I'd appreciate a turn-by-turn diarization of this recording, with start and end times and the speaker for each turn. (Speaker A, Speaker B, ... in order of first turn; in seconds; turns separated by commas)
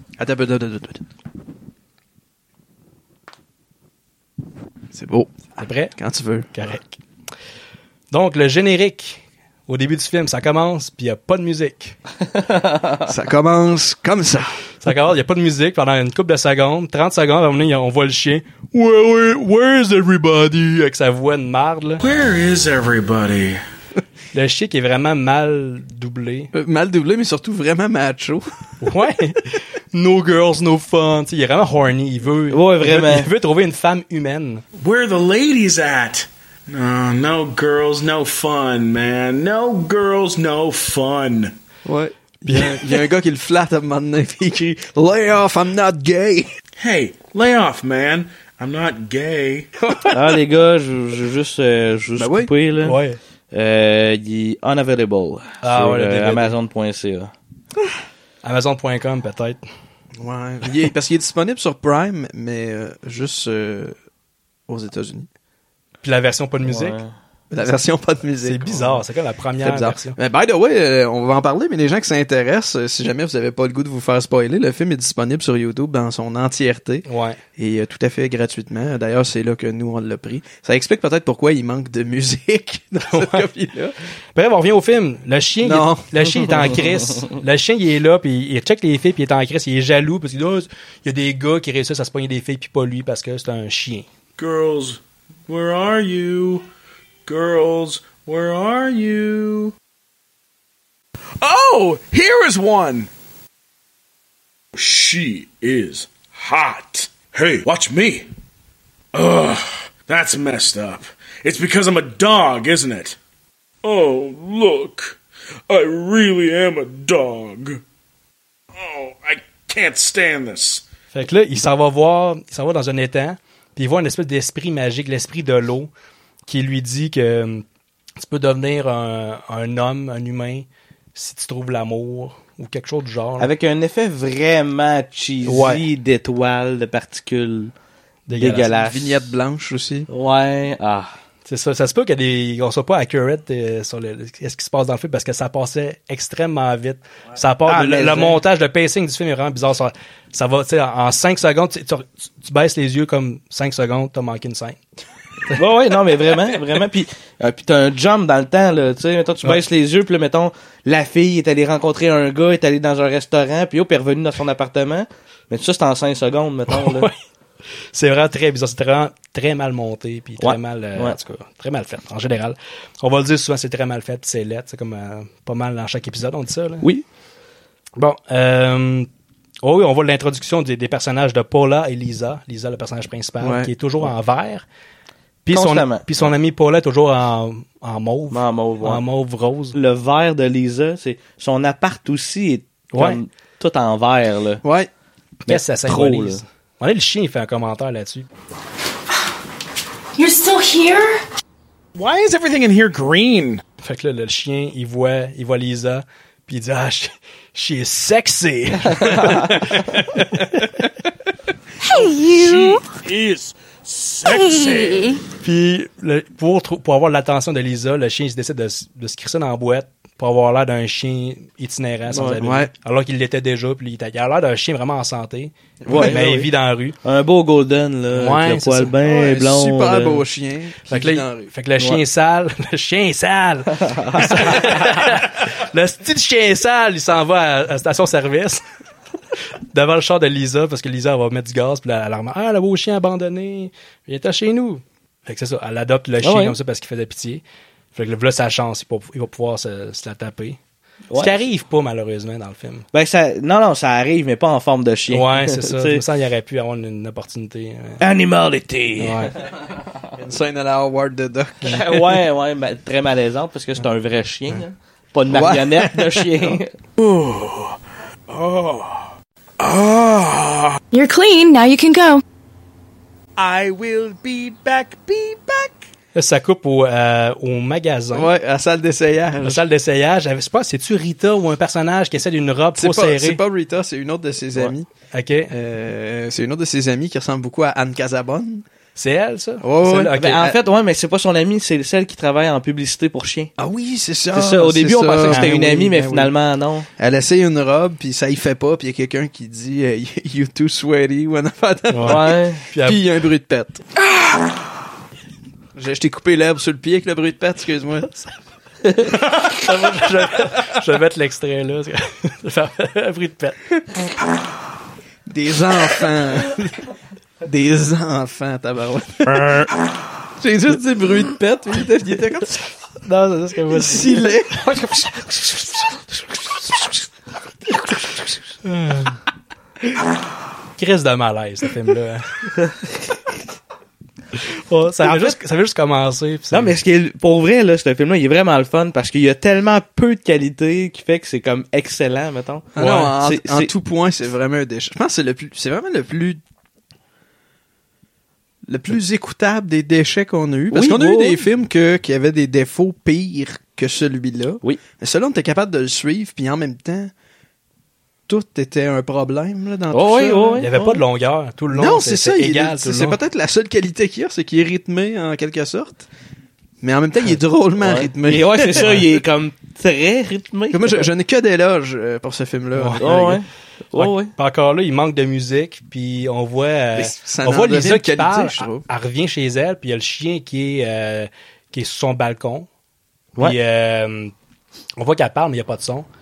Speaker A: 0.2-1.0, Speaker A: 4.9-6.6, Speaker B: 5.6-6.0, Speaker B: 6.5-7.0, Speaker B: 8.1-12.0, Speaker A: 13.1-14.5, Speaker B: 14.8-22.0, Speaker C: 22.0-23.6, Speaker B: 24.3-26.5, Speaker A: 26.5-28.4, Speaker B: 28.8-34.6, Speaker D: 32.5-33.3, Speaker C: 34.8-41.5, Speaker A: 41.9-46.5, Speaker B: 42.5-42.8, Speaker C: 46.8-49.7, Speaker B: 49.8-50.1, Speaker D: 50.1-53.0, Speaker A: 52.1-52.5, Speaker B: 52.8-53.2, Speaker D: 53.5-57.3, Speaker B: 55.6-56.6, Speaker B: 58.4-59.6, Speaker A: 60.2-64.0, Speaker A: 64.7-65.3, Speaker B: 66.0-67.0, Speaker D: 66.6-67.1, Speaker A: 67.5-69.0, Speaker B: 68.4-70.2, Speaker A: 69.6-83.9, Speaker B: 77.1-77.4, Speaker B: 83.1-83.5, Speaker B: 84.3-94.1, Speaker A: 85.6-86.1, Speaker C: 94.4-96.7, Speaker C: 97.3-99.7, Speaker C: 101.4-103.1, Speaker C: 104.8-108.3, Speaker C: 109.1-113.2, Speaker C: 113.8-115.2, Speaker C: 115.7-117.8, Speaker C: 118.8-120.8, Speaker B: 121.1-125.9, Speaker B: 126.5-127.6, Speaker B: 128.2-133.5, Speaker D: 133.4-137.7, Speaker B: 135.4-135.8, Speaker B: 138.3-138.7, Speaker D: 138.4-139.2, Speaker A: 138.5-140.1, Speaker D: 140.1-141.1, Speaker B: 141.5-154.8, Speaker D: 147.7-148.4, Speaker D: 155.6-167.1, Speaker B: 166.7-167.1, Speaker B: 167.9-176.9, Speaker D: 170.4-171.2, Speaker B: 178.0-179.1, Speaker B: 179.6-184.7, Speaker A: 183.4-183.7, Speaker B: 185.5-189.8, Speaker D: 185.5-186.1, Speaker D: 188.3-189.0, Speaker D: 189.7-194.6, Speaker B: 192.9-193.2, Speaker A: 194.6-194.9, Speaker D: 195.5-196.4, Speaker B: 195.5-198.3, Speaker E: 200.2-201.0, Speaker C: 202.0-203.6, Speaker B: 203.8-210.4, Speaker C: 211.9-215.2, Speaker E: 212.0-212.8, Speaker E: 214.3-215.1, Speaker B: 215.4-227.0, Speaker D: 222.1-222.4, Speaker A: 222.4-222.7, Speaker A: 225.8-226.2, Speaker D: 225.9-226.5, Speaker D: 227.0-230.2, Speaker B: 228.1-228.9, Speaker A: 229.1-231.5, Speaker B: 230.9-238.6, Speaker D: 233.8-234.8, Speaker B: 239.7-247.4, Speaker D: 246.2-246.6, Speaker B: 247.9-250.6, Speaker D: 251.1-251.4, Speaker B: 251.1-252.9, Speaker D: 252.9-256.0, Speaker B: 255.1-258.0, Speaker D: 258.0-259.3, Speaker B: 259.0-259.3, Speaker A: 260.2-262.1, Speaker D: 261.6-266.7, Speaker A: 265.3-266.6, Speaker C: 267.0-267.8, Speaker C: 268.3-270.8, Speaker E: 270.9-272.2, Speaker C: 273.4-275.8, Speaker B: 276.1-278.3, Speaker A: 278.1-279.6, Speaker B: 279.4-283.4, Speaker A: 282.8-284.9, Speaker B: 285.1-285.7, Speaker A: 285.6-288.6, Speaker B: 289.0-290.5, Speaker A: 289.6-290.5, Speaker D: 290.1-293.5, Speaker A: 293.6-296.3, Speaker D: 294.3-296.9, Speaker B: 295.3-295.6, Speaker A: 297.0-303.8, Speaker B: 301.9-303.0, Speaker D: 302.1-302.6, Speaker A: 305.8-308.3, Speaker B: 309.1-313.6, Speaker A: 315.3-316.6, Speaker A: 317.4-319.7, Speaker A: 320.4-322.6, Speaker B: 323.1-325.1, Speaker A: 323.7-324.6, Speaker B: 328.6-329.2, Speaker B: 330.8-332.3, Speaker B: 334.7-336.8, Speaker D: 335.0-335.4, Speaker D: 336.5-343.7, Speaker A: 342.8-346.4, Speaker B: 342.8-343.1, Speaker A: 348.7-357.1, Speaker D: 350.7-351.5, Speaker A: 358.3-360.7, Speaker D: 359.9-361.0, Speaker B: 360.6-363.2, Speaker A: 361.7-366.1, Speaker A: 366.8-369.1, Speaker D: 367.8-371.1, Speaker B: 368.8-369.1, Speaker A: 370.7-373.4, Speaker B: 372.8-373.2, Speaker D: 373.0-374.3, Speaker B: 373.9-382.7, Speaker A: 377.0-378.9, Speaker B: 383.4-384.3, Speaker B: 385.0-386.1